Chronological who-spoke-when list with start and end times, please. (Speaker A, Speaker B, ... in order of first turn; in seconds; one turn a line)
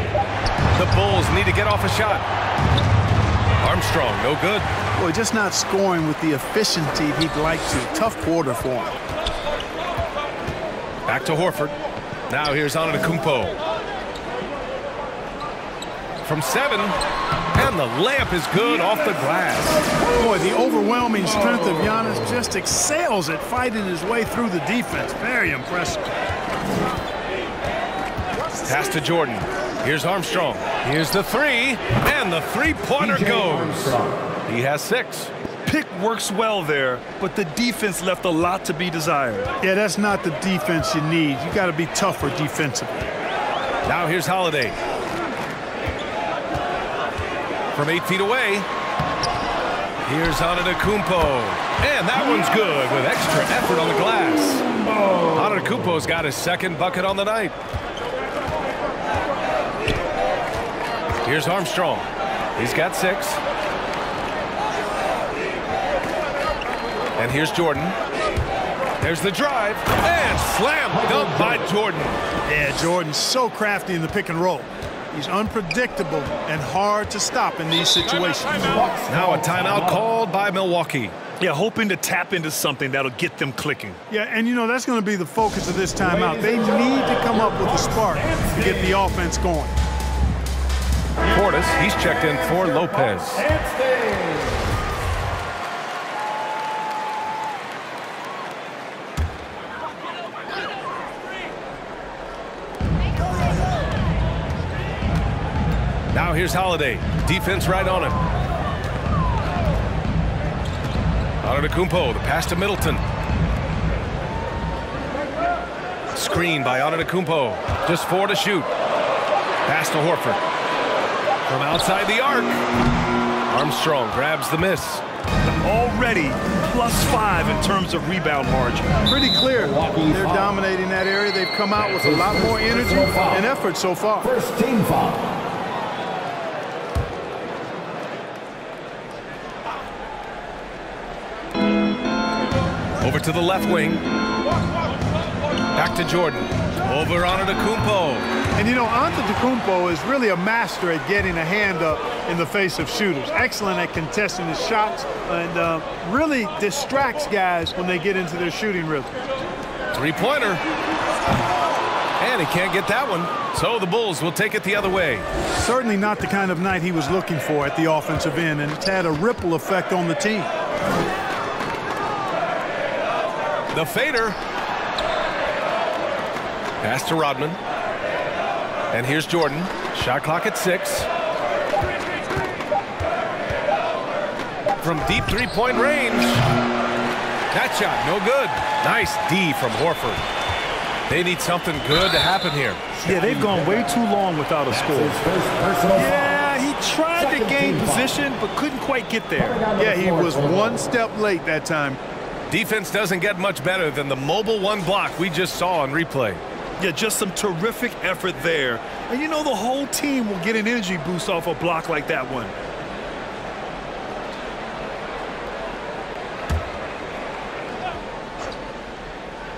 Speaker A: 0.7-2.2
Speaker A: 3.6-4.7
Speaker B: 5.0-8.9
Speaker A: 11.1-11.8
Speaker A: 12.3-13.6
Speaker A: 16.2-16.9
Speaker A: 17.5-19.8
Speaker B: 20.2-26.1
Speaker A: 28.6-35.3
Speaker C: 33.0-34.2
Speaker D: 35.6-39.5
Speaker B: 39.6-43.0
Speaker A: 43.9-44.8
Speaker A: 47.7-48.7
Speaker A: 50.0-54.6
Speaker A: 55.3-57.6
Speaker A: 61.2-63.4
Speaker A: 67.2-68.0
Speaker A: 69.0-72.2
Speaker C: 70.9-71.7
Speaker B: 72.5-78.8
Speaker C: 78.6-80.0
Speaker A: 79.1-81.2
Speaker D: 81.4-84.0
Speaker B: 84.1-89.8
Speaker C: 86.0-89.0
Speaker A: 91.3-93.5
Speaker C: 92.5-94.8
Speaker A: 106.1-108.2
Speaker A: 111.4-113.0
Speaker A: 116.1-118.7
Speaker A: 119.7-120.4
Speaker A: 121.5-122.6
Speaker A: 123.5-125.0
Speaker D: 125.4-128.9
Speaker B: 129.1-134.3
Speaker C: 129.6-130.5
Speaker C: 131.8-133.4
Speaker C: 134.2-135.3
Speaker A: 143.0-144.0
Speaker A: 145.7-148.3
Speaker B: 148.5-159.2
Speaker A: 159.9-160.6
Speaker A: 162.2-165.2
Speaker B: 165.5-170.5
Speaker A: 173.7-174.4
Speaker A: 176.8-177.6
Speaker A: 178.9-181.1
Speaker A: 184.8-186.4
Speaker A: 187.5-190.2
Speaker A: 191.1-192.8
Speaker C: 192.9-193.9
Speaker D: 193.0-195.2
Speaker C: 194.9-196.4
Speaker D: 195.9-199.6
Speaker C: 197.2-198.1
Speaker C: 199.4-200.8
Speaker B: 199.8-202.0
Speaker A: 202.5-206.4
Speaker D: 206.8-212.5